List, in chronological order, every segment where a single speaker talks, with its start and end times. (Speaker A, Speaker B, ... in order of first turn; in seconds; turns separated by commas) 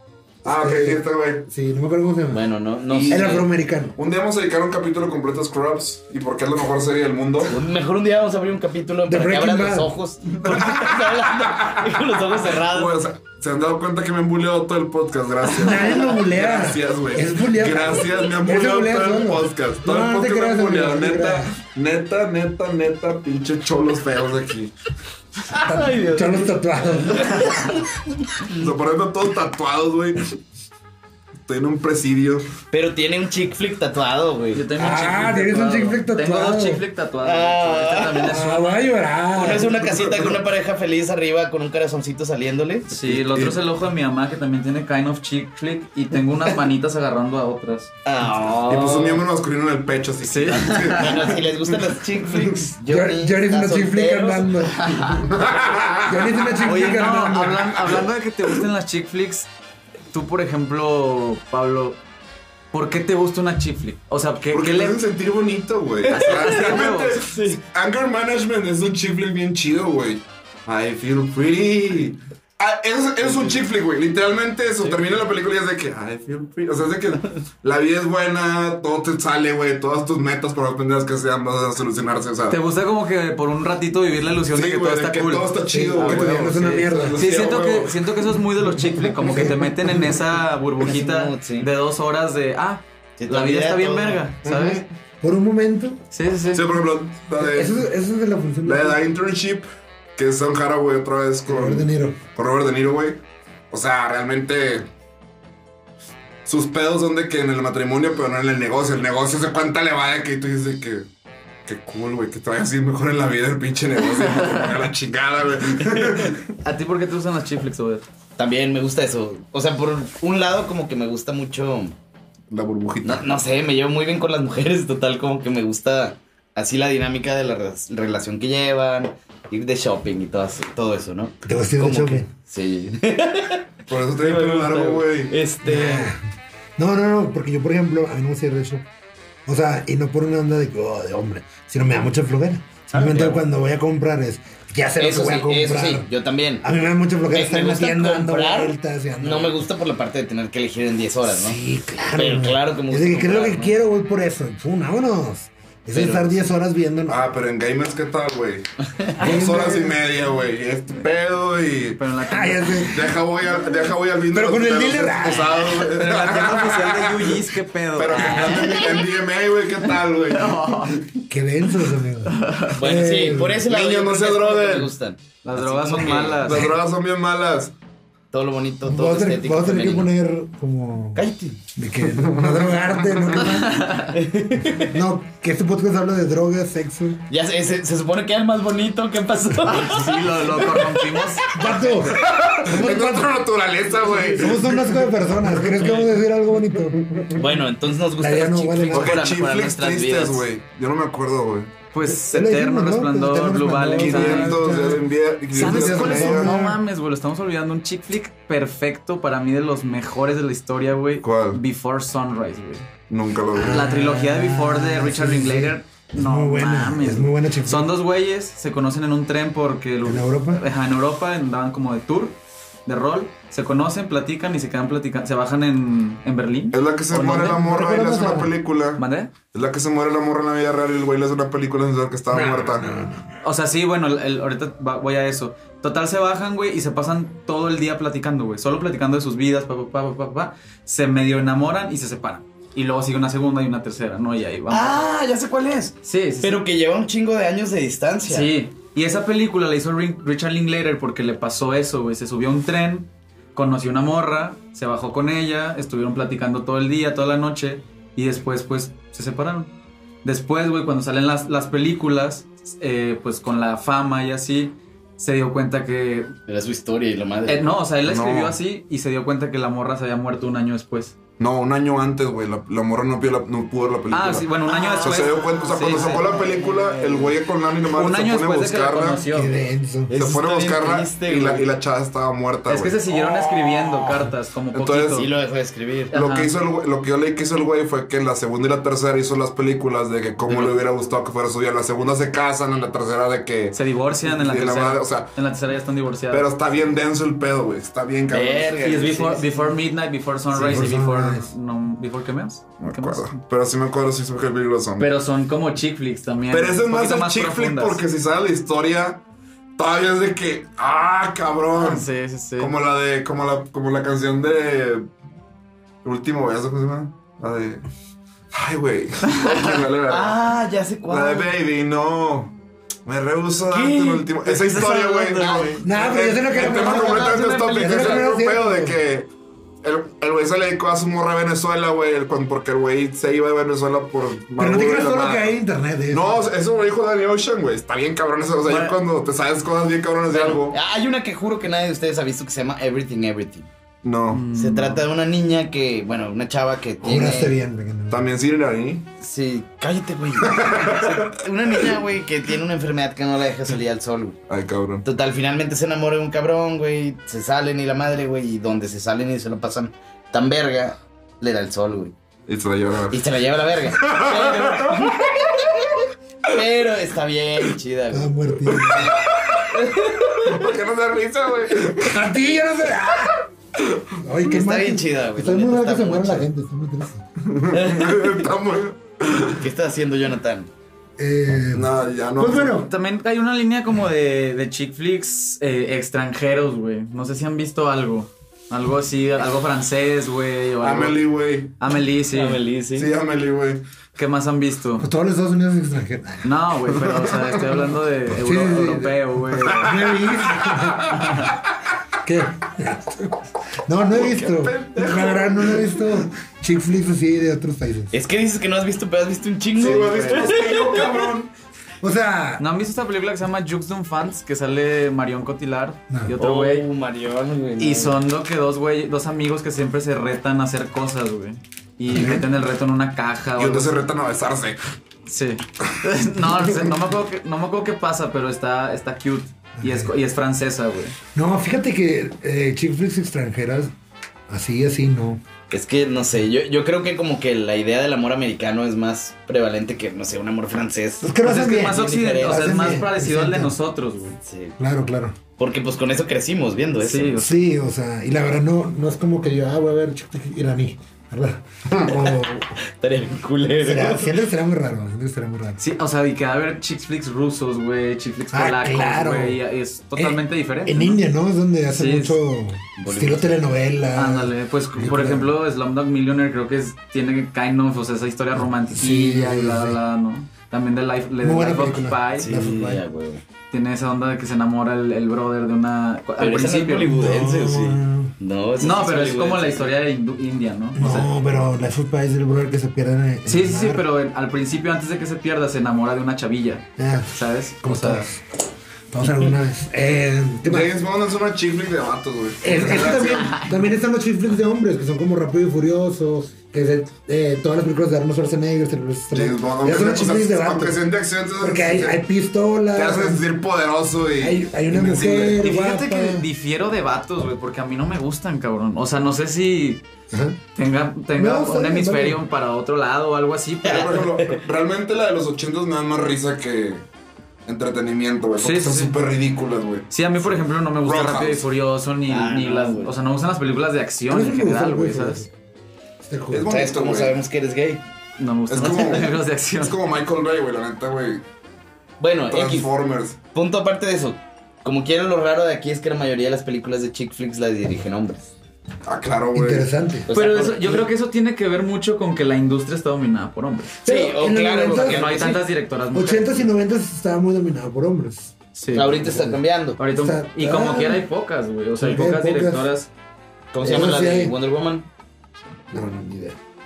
Speaker A: 0.4-1.5, Speaker B: 0.4-2.4, Speaker C: 2.3-3.5, Speaker A: 2.9-3.4, Speaker B: 3.1-4.0, Speaker A: 4.0-7.5, Speaker C: 7.5-12.9, Speaker B: 9.1-9.9, Speaker A: 10.4-24.7, Speaker B: 15.6-21.5, Speaker C: 25.5-26.5, Speaker B: 25.6-27.6, Speaker C: 27.1-27.8, Speaker A: 28.5-30.3, Speaker A: 31.4-32.5, Speaker C: 32.7-34.6, Speaker D: 34.5-38.8, Speaker B: 34.8-36.8, Speaker C: 37.2-38.4, Speaker B: 38.2-40.2, Speaker C: 39.3-42.9, Speaker D: 42.9-47.9, Speaker A: 43.0-43.6, Speaker C: 48.0-49.2, Speaker A: 48.7-52.7, Speaker D: 50.2-51.3, Speaker C: 50.9-55.3, Speaker B: 52.8-55.3, Speaker A: 55.3-56.5, Speaker B: 56.0-58.0, Speaker D: 56.6-59.5, Speaker D: 60.1-62.0, Speaker D: 62.7-65.0, Speaker A: 64.5-82.6, Speaker C: 66.0-67.5, Speaker D: 66.2-67.5, Speaker D: 82.5-94.8, Speaker A: 84.5-88.0, Speaker B: 85.7-87.3, Speaker B: 89.0-90.2, Speaker C: 90.8-91.7, Speaker C: 93.2-94.2, Speaker A: 94.4-94.9, Speaker B: 95.2-96.0, Speaker D: 96.1-96.6, Speaker A: 96.5-97.8, Speaker B: 97.3-99.0, Speaker A: 98.6-104.9, Speaker B: 101.5-102.2, Speaker A: 106.4-111.0, Speaker A: 111.7-116.5, Speaker D: 114.1-114.8, Speaker D: 116.6-118.0, Speaker C: 118.4-121.9, Speaker A: 122.5-123.3, Speaker C: 123.0-136.1, Speaker B: 131.4-132.3, Speaker A: 133.9-135.3, Speaker B: 135.6-136.2, Speaker B: 136.8-138.8, Speaker B: 139.4-146.1, Speaker C: 142.9-143.4, Speaker C: 145.0-146.7, Speaker B: 146.6-149.6, Speaker C: 147.3-151.6, Speaker B: 151.2-157.2, Speaker C: 152.1-153.7, Speaker C: 155.9-156.4, Speaker A: 157.1-162.0, Speaker B: 159.2-160.0, Speaker D: 162.0-162.9, Speaker B: 162.3-163.1, Speaker A: 162.9-171.2, Speaker B: 164.3-165.9, Speaker D: 165.8-169.0, Speaker C: 168.1-168.9, Speaker D: 170.3-171.0, Speaker B: 171.3-173.7, Speaker D: 172.2-172.9, Speaker C: 172.7-176.6, Speaker A: 173.7-174.9, Speaker D: 175.4-176.7, Speaker A: 176.4-177.7, Speaker C: 178.3-180.1, Speaker B: 178.8-181.2, Speaker C: 181.1-181.6, Speaker B: 181.7-183.8, Speaker A: 182.1-183.3, Speaker D: 183.4-184.2, Speaker C: 184.1-184.9, Speaker B: 184.7-187.2, Speaker C: 187.3-191.3, Speaker D: 189.6-191.8, Speaker B: 191.5-193.4, Speaker A: 191.9-196.0, Speaker B: 194.0-197.2, Speaker D: 195.8-196.1, Speaker A: 197.1-197.3, Speaker C: 197.3-200.4, Speaker B: 198.2-199.2, Speaker A: 198.9-201.8, Speaker D: 201.9-204.6, Speaker B: 202.0-206.8, Speaker A: 203.9-206.6, Speaker D: 205.5-212.9, Speaker A: 211.2-211.6, Speaker A: 213.1-213.9, Speaker B: 213.5-217.9, Speaker D: 213.7-227.7, Speaker B: 220.0-220.6, Speaker A: 226.7-232.9, Speaker B: 227.5-228.5, Speaker D: 229.0-229.3, Speaker B: 232.3-233.3, Speaker D: 233.4-245.1, Speaker C: 244.7-248.5, Speaker D: 246.0-246.6, Speaker D: 248.3-259.7, Speaker D: 260.2-266.3, Speaker C: 266.5-267.6, Speaker D: 267.5-271.1, Speaker A: 268.0-268.6, Speaker A: 271.4-279.2, Speaker D: 274.1-276.3, Speaker C: 274.7-277.4, Speaker D: 277.9-279.5, Speaker B: 279.3-280.1, Speaker C: 280.1-281.7, Speaker A: 280.1-284.1, Speaker D: 282.7-285.3, Speaker A: 284.7-285.3, Speaker C: 285.1-286.1, Speaker D: 286.1-286.5, Speaker A: 286.1-295.3, Speaker D: 293.7-296.5, Speaker A: 296.3-298.9, Speaker C: 298.3-299.7, Speaker D: 298.8-303.3, Speaker B: 300.5-301.5, Speaker A: 302.8-305.1, Speaker D: 305.0-308.0, Speaker A: 306.5-309.2, Speaker A: 309.8-315.1, Speaker D: 311.7-312.7, Speaker A: 316.0-317.8, Speaker A: 318.5-320.4, Speaker D: 319.3-319.8, Speaker C: 320.1-321.5, Speaker A: 321.1-322.5, Speaker A: 323.1-329.3, Speaker C: 323.7-328.4, Speaker D: 324.5-325.8, Speaker B: 325.8-329.0, Speaker A: 329.8-335.6, Speaker B: 334.6-336.5, Speaker A: 336.1-340.8, Speaker D: 338.6-338.9, Speaker C: 340.3-343.7, Speaker A: 344.0-344.4, Speaker D: 344.3-345.1, Speaker C: 344.5-347.5, Speaker B: 347.0-348.2, Speaker A: 348.1-349.1, Speaker C: 349.2-354.4, Speaker A: 350.4-351.4, Speaker A: 354.5-355.0, Speaker C: 355.0-362.1, Speaker A: 362.5-363.2, Speaker C: 363.1-365.8, Speaker A: 363.9-366.0, Speaker C: 366.5-369.1, Speaker B: 368.1-369.1, Speaker A: 368.7-372.3, Speaker C: 369.7-370.5, Speaker B: 372.0-373.4, Speaker B: 374.2-377.2, Speaker C: 374.4-376.5, Speaker A: 377.4-379.6, Speaker C: 377.7-378.3, Speaker C: 379.6-380.7, Speaker B: 381.2-382.9, Speaker A: 381.7-382.8, Speaker D: 382.8-391.2, Speaker A: 390.8-391.7, Speaker D: 391.8-392.6, Speaker C: 392.3-393.1, Speaker A: 392.9-393.8, Speaker D: 394.1-395.1, Speaker B: 395.0-396.5, Speaker D: 396.4-400.2, Speaker A: 396.9-397.6, Speaker B: 398.3-401.3, Speaker A: 400.4-401.3, Speaker D: 401.1-401.5, Speaker B: 402.2-408.1, Speaker A: 404.1-406.0, Speaker C: 408.1-411.2, Speaker A: 409.8-411.5, Speaker D: 409.8-410.7, Speaker B: 412.0-412.6, Speaker D: 412.6-416.8, Speaker C: 416.4-418.2, Speaker D: 417.8-424.0, Speaker B: 422.1-422.4, Speaker A: 423.6-424.8, Speaker D: 425.2-431.1, Speaker B: 429.8-430.1, Speaker B: 431.3-433.9, Speaker B: 434.5-435.4, Speaker C: 435.7-443.0, Speaker B: 441.2-443.7, Speaker D: 441.4-444.4, Speaker C: 444.4-444.8, Speaker B: 444.8-445.4, Speaker C: 445.6-447.4, Speaker D: 447.0-447.5, Speaker B: 447.4-452.7, Speaker C: 452.8-454.4, Speaker B: 453.8-455.8, Speaker D: 455.8-461.2, Speaker B: 458.5-459.6, Speaker B: 460.1-465.5, Speaker D: 461.9-462.4, Speaker C: 463.0-463.5, Speaker D: 464.1-472.5, Speaker B: 468.6-470.0, Speaker B: 471.4-473.0, Speaker C: 472.3-473.4, Speaker D: 473.7-477.1, Speaker C: 476.4-479.9, Speaker B: 477.0-478.3, Speaker D: 478.8-481.3, Speaker B: 480.9-484.0, Speaker D: 483.5-488.3, Speaker B: 487.0-488.4, Speaker B: 489.1-490.9, Speaker A: 490.6-493.7, Speaker B: 492.6-501.0, Speaker D: 492.8-493.7, Speaker A: 499.3-502.2, Speaker B: 501.6-503.5, Speaker A: 502.9-505.6, Speaker B: 504.4-506.4, Speaker D: 505.6-510.0, Speaker B: 510.3-510.6, Speaker D: 510.7-514.2, Speaker B: 511.3-512.4, Speaker C: 513.8-514.6, Speaker A: 513.8-517.0, Speaker A: 517.6-521.7, Speaker D: 518.6-519.1, Speaker D: 520.1-525.5, Speaker C: 522.3-523.1, Speaker B: 524.3-525.5, Speaker B: 526.2-526.7, Speaker A: 526.5-527.4, Speaker C: 526.7-528.0, Speaker D: 528.4-530.0, Speaker A: 528.7-531.4, Speaker C: 532.2-532.9, Speaker A: 532.5-533.4, Speaker C: 533.5-538.5, Speaker A: 539.0-539.9, Speaker B: 539.5-540.3, Speaker C: 540.3-541.1, Speaker D: 540.3-544.0, Speaker C: 544.0-545.6, Speaker B: 544.0-545.6, Speaker D: 544.9-546.6, Speaker B: 546.1-551.2, Speaker D: 548.7-549.2, Speaker C: 548.9-550.0, Speaker D: 550.0-553.1, Speaker B: 552.0-552.9, Speaker C: 553.7-555.1, Speaker B: 553.8-554.5, Speaker B: 555.9-556.6